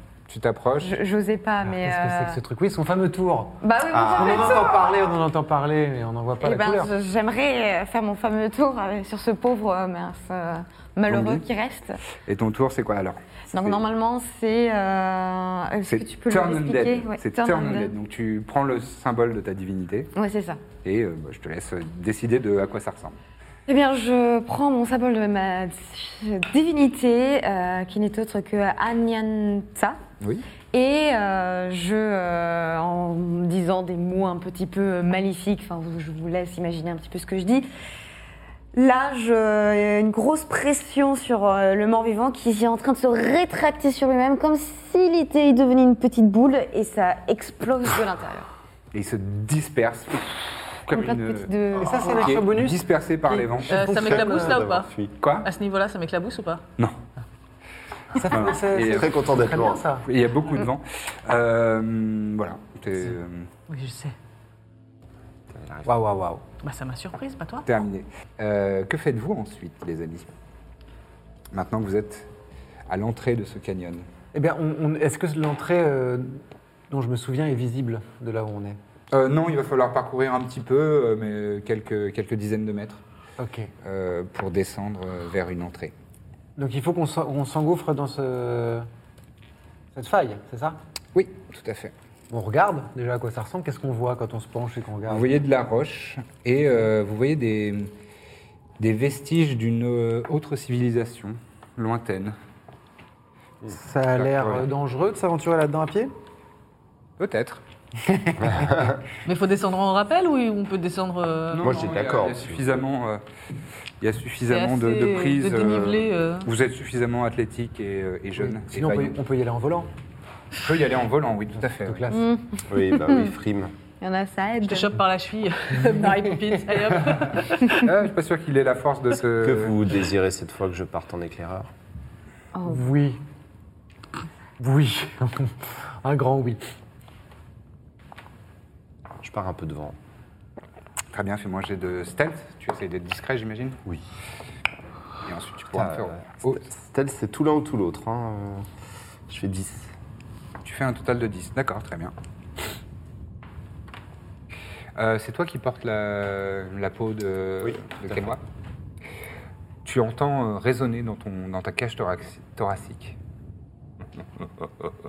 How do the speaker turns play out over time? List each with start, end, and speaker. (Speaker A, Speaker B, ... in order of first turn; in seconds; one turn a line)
Speaker A: 0.3-1.0
Speaker B: 0.8-2.4
Speaker C: 1.6-6.9
Speaker B: 3.6-4.8
Speaker D: 3.9-5.0
Speaker B: 6.4-12.0
Speaker A: 11.1-11.5
Speaker A: 12.2-13.8
Speaker B: 13.5-17.9
Speaker A: 15.9-20.1
Speaker B: 20.2-20.6
Speaker A: 20.8-23.2
Speaker B: 23.7-30.0
Speaker A: 30.2-30.5
Speaker B: 30.7-37.7
Speaker B: 38.7-48.5
Speaker A: 48.9-53.9
Speaker B: 50.9-52.4
Speaker C: 51.8-54.6
Speaker E: 53.7-56.7
Speaker D: 53.9-55.2
Speaker A: 55.2-55.5
Speaker C: 58.1-60.1
Speaker A: 58.3-59.3
Speaker D: 58.8-59.9
Speaker A: 60.0-63.5
Speaker E: 63.7-64.2
Speaker D: 65.5-65.9
Speaker C: 65.9-66.4
Speaker E: 66.6-67.7
Speaker A: 67.7-70.3
Speaker A: 71.5-72.3
Speaker A: 72.9-74.1
Speaker C: 74.3-78.8
Speaker A: 79.1-83.0
Speaker C: 83.4-83.7
Speaker A: 83.8-85.9
Speaker C: 86.6-88.9
Speaker C: 89.9-90.8
Speaker A: 91.1-91.9
Speaker C: 92.3-95.3
Speaker A: 95.1-97.9
Speaker A: 98.8-102.4
Speaker C: 103.7-106.1
Speaker A: 104.1-104.7
Speaker A: 107.2-107.6
Speaker D: 108.4-109.0
Speaker E: 109.2-111.9
Speaker A: 111.5-113.2
Speaker D: 111.6-112.7
Speaker A: 114.0-119.2
Speaker E: 114.5-116.5
Speaker C: 118.4-119.9
Speaker A: 120.6-122.1
Speaker C: 121.8-122.3
Speaker B: 122.1-123.3
Speaker D: 122.7-123.7
Speaker B: 124.0-125.0
Speaker E: 124.6-127.9
Speaker A: 127.7-129.8
Speaker D: 129.4-131.7
Speaker B: 132.6-132.8
Speaker C: 132.7-133.2
Speaker C: 134.6-136.6
Speaker D: 139.2-140.0
Speaker A: 141.1-143.8
Speaker A: 145.2-146.6
Speaker D: 145.7-148.8
Speaker D: 149.3-149.9
Speaker A: 150.6-152.1
Speaker A: 155.0-158.4
Speaker D: 157.6-158.4
Speaker A: 159.8-163.2